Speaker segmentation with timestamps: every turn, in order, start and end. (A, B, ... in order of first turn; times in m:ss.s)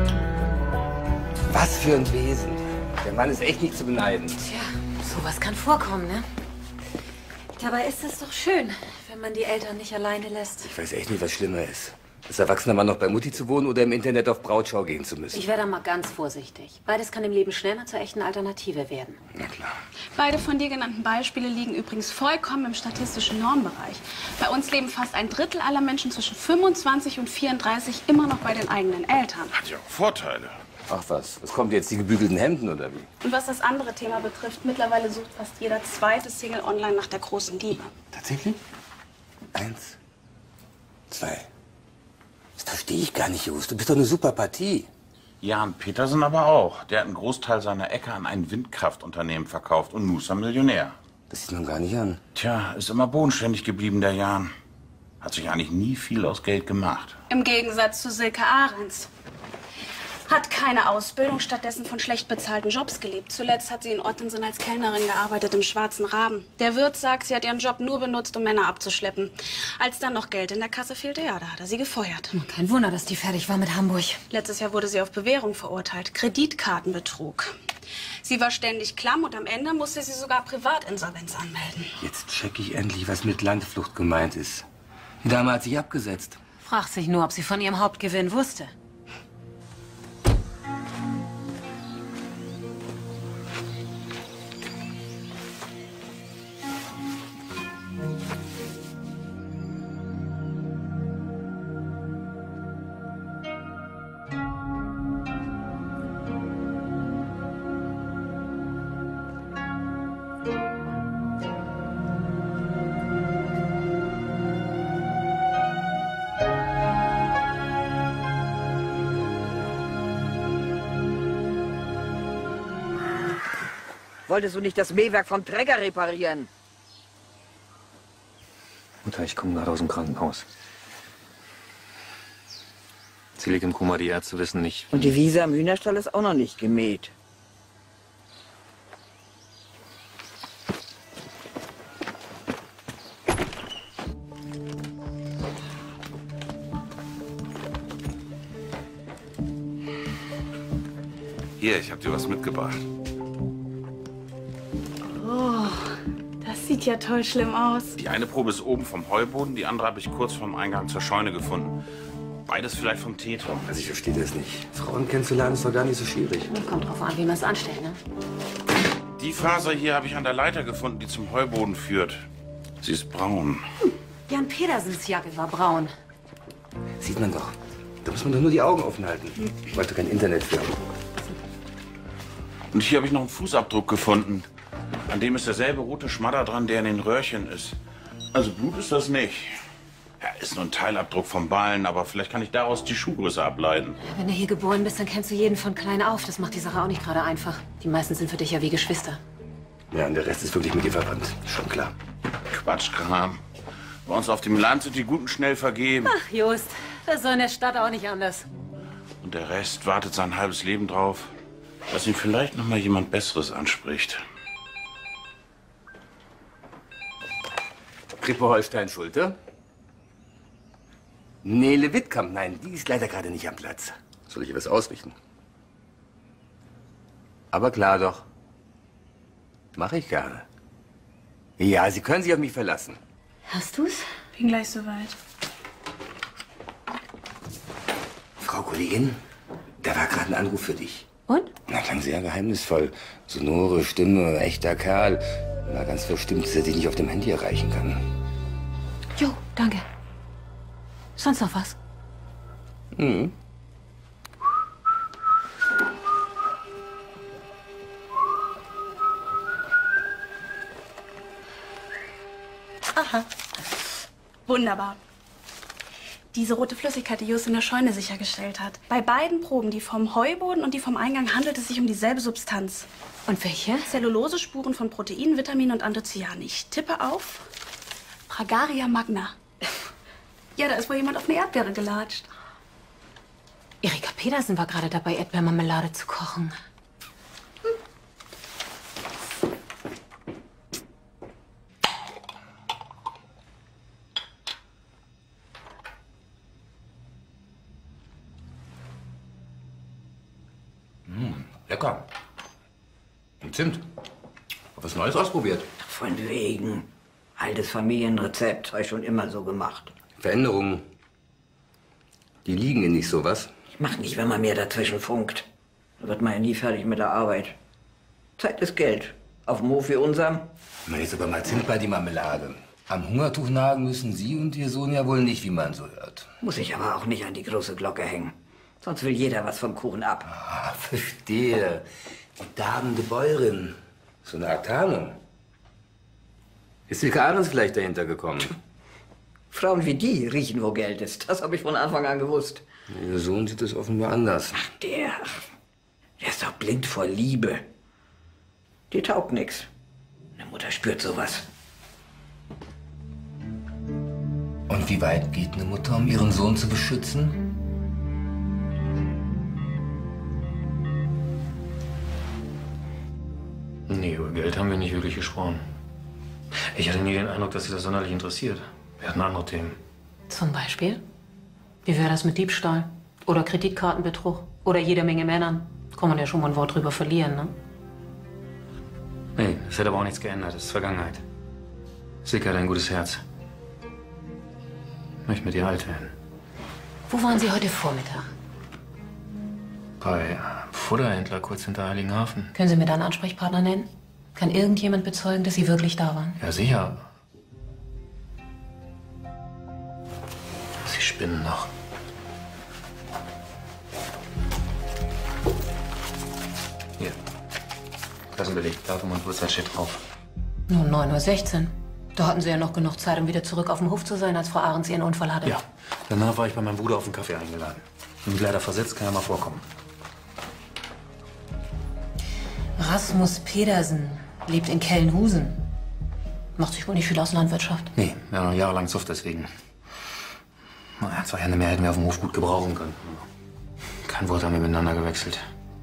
0:01.5-0:04.4 A
0:04.4-0:06.2 B
0:07.6-0:10.7 B
0:10.6-0:15.4 A
0:15.3-0:19.2 B
0:19.3-0:19.8 A
0:20.2-0:29.5 C
0:29.5-0:30.6 D
0:30.9-0:33.1 A
0:33.2-0:37.9 C
0:38.1-0:38.6 A
0:39.5-0:40.0 A
0:41.1-0:41.5 A
0:42.6-0:44.9 A
0:45.4-0:51.0 D
0:51.3-0:52.2 A
0:52.3-0:54.5 D
0:55.2-0:57.2 D
0:57.3-0:59.1 C
1:00.3-1:12.3 C
1:12.3-1:14.2 B
1:14.3-1:17.5 C
1:18.2-1:21.9 C
1:22.0-1:24.6 A
1:25.2-1:26.4 A
1:26.6-1:28.7 B
2:04.3-2:06.5 E
2:09.0-2:10.5 F
2:13.4-2:14.9 F
2:14.9-2:17.1 E
2:31.6-2:32.8 D
2:35.2-2:35.8 C
2:36.4-2:38.0 C
2:38.0-2:41.8 D
2:42.5-2:43.7 D
2:43.6-2:46.5 A
2:46.5-2:48.0 B
2:49.2-2:52.3 D
2:52.8-2:53.6 D
2:54.3-2:55.9 B
2:57.0-3:00.8 A
3:02.7-3:04.5 D
3:05.1-3:07.8 D
3:08.3-3:09.6 D
3:10.2-3:14.0 D
3:14.0-3:19.2 B
3:19.9-3:21.9 A
3:22.5-3:23.4 D
3:24.0-3:26.1 D
3:26.0-3:28.5 B
3:29.2-3:31.3 D
3:31.9-3:34.2 D
3:38.2-3:39.4 A
3:41.4-3:45.2 A
3:47.5-3:48.2 A
3:49.7-3:50.4 A
3:51.6-3:53.0 A
3:53.5-3:54.0 B
3:54.4-3:55.2 C
3:58.4-3:59.2 A
3:59.8-4:01.1 A
4:01.7-4:08.0 A
4:09.2-4:09.9 B
4:11.2-4:11.8 B
4:12.9-4:13.3 A
4:24.4-4:25.0 C
4:26.3-4:32.9 C
4:33.3-4:33.9 B
4:33.9-4:37.5 C
4:38.3-4:39.4 C
4:40.6-4:42.3 C
4:43.8-4:46.5 B
5:01.1-5:02.0 A
5:03.4-5:03.8 A
5:04.8-5:05.6 A
5:05.8-5:09.9 E
5:10.2-5:10.9 A
5:12.4-5:13.5 A
5:13.8-5:15.5 E
5:16.0-5:17.6 E
5:18.4-5:20.5 E
5:20.9-5:26.3 A
5:26.4-5:30.3 E
5:30.2-5:35.2 A
5:36.9-5:38.6 A
5:39.5-5:42.6 E
5:42.9-5:44.7 A
5:44.6-5:45.4 E
5:46.2-5:47.6 E
5:48.9-5:49.7 E
5:50.4-5:51.4 E
5:54.7-5:57.4 A
6:03.9-6:05.6 F
6:06.7-6:09.8 F
6:10.3-6:11.0 B
6:11.8-6:17.5 B
6:19.4-6:21.2 F
6:22.2-6:23.2 F
6:25.2-6:26.1 F
6:27.1-6:28.3 B
6:30.0-6:32.5 F
6:32.5-6:36.4 B
6:36.4-6:37.0 F
6:40.8-6:41.7 F
6:48.3-6:50.0 F
6:50.7-6:55.6 B
6:55.4-6:59.6 F
7:02.8-7:05.6 B
7:06.6-7:07.9 B
7:07.9-7:09.5 F
7:11.0-7:13.2 F
7:14.0-7:15.4 F